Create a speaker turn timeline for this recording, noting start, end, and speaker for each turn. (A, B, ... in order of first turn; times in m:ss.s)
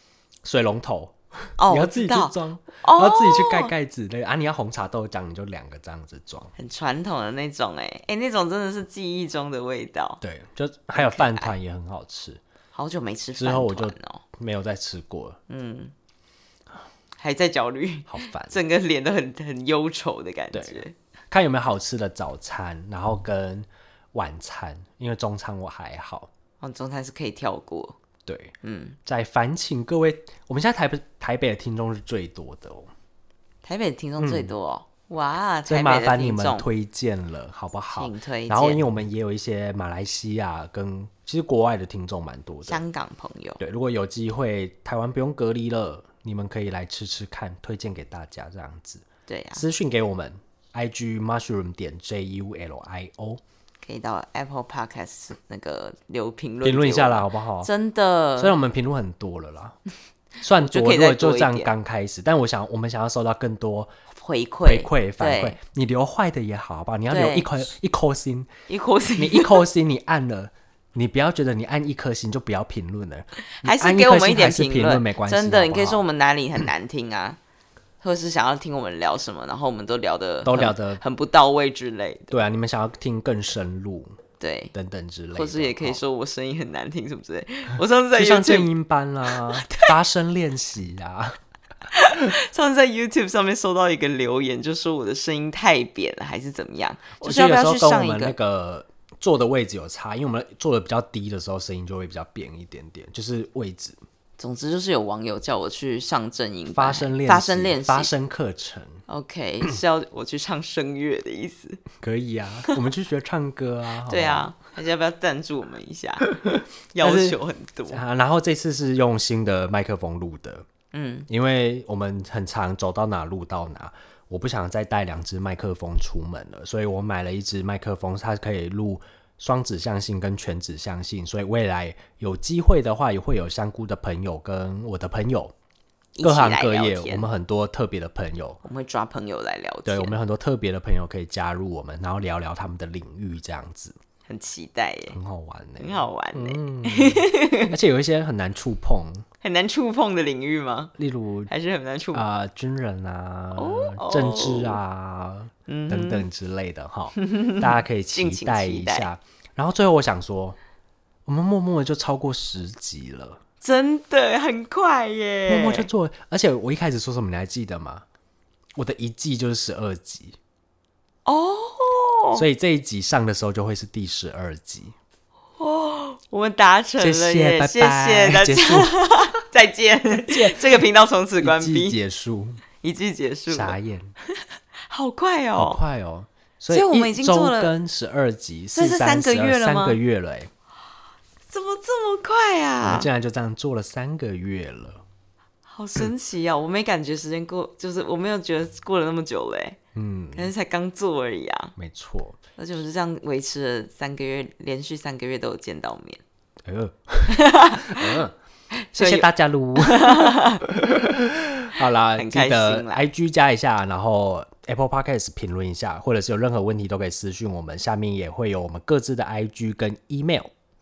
0:00.4-0:06.5 A
0:01.6-0:03.7 B
0:06.6-0:10.2 B
0:10.2-0:12.4 A
0:11.0-0:11.5 B
0:12.7-0:14.2 B
0:13.4-0:15.4 A
0:15.5-0:15.9 B
0:17.2-0:20.9 B
0:18.1-0:18.6 A
0:20.5-0:26.3 A
0:26.6-0:28.0 B
0:28.3-0:28.5 A
0:28.6-0:29.0 B
0:29.0-0:32.9 A
0:33.6-0:36.7 B
0:34.2-0:34.5 A
0:35.7-0:42.8 A
0:37.9-0:38.8 B
0:42.7-0:43.6 B
0:43.6-0:53.4 A
0:49.3-0:49.6 B
0:53.8-0:58.5 B
0:56.6-0:57.7 A
0:58.4-0:59.8 A
1:00.4-1:03.9 A
1:00.6-1:01.7 B
1:04.2-1:05.6 B
1:04.6-1:08.5 A
1:07.1-1:07.7 B
1:08.7-1:09.6 B
1:09.2-1:16.0 A
1:13.6-1:17.4 B
1:18.0-1:22.3 B
1:20.4-1:21.0 A
1:22.3-1:24.2 A
1:24.4-1:24.7 B
1:24.7-1:26.0 A
1:25.4-1:28.7 B
1:28.1-1:31.4 A
1:29.3-1:30.0 B
1:31.9-1:38.4 B
1:37.2-1:44.0 A
1:44.4-1:48.1 B
1:46.7-1:49.0 A
1:49.1-1:51.8 B
1:52.0-1:54.5 A
1:54.1-1:56.3 B
1:56.3-1:57.4 A
1:56.9-1:58.0 B
1:57.9-2:00.6 A
2:00.9-2:01.3 B
2:01.3-2:15.5 A
2:16.2-2:17.3 B
2:16.2-2:18.6 A
2:18.6-2:20.2 B
2:19.8-2:24.0 A
2:24.3-2:25.2 B
2:25.1-2:29.2 A
2:25.8-2:27.7 B
2:29.4-2:30.9 B
2:31.0-2:31.5 A
2:31.5-2:32.2 B
2:32.1-2:40.6 A
2:33.6-2:34.8 B
2:35.7-2:36.3 B
2:37.2-2:39.1 B
2:41.3-2:43.4 A
2:43.6-2:45.9 B
2:45.5-2:48.0 A
2:48.8-2:50.4 A
2:51.3-2:52.4 B
2:52.4-2:55.0 A
2:55.6-3:02.0 B
2:57.0-2:59.0 A
3:00.1-3:00.8 A
3:01.4-3:02.6 A
3:02.8-3:03.8 B
3:03.5-3:04.1 A
3:04.9-3:05.8 B
3:05.6-3:10.5 A
3:06.7-3:07.7 B
3:08.7-3:10.0 B
3:11.5-3:13.1 B
3:12.8-3:15.0 A
3:15.7-3:19.8 B
3:20.0-3:20.5 A
3:20.3-3:21.7 B
3:21.8-3:22.4 A
3:22.6-3:26.2 B
3:26.6-3:28.3 A
3:27.3-3:28.2 B
3:28.7-3:30.7 B
3:28.9-3:40.5 A
3:32.2-3:33.0 B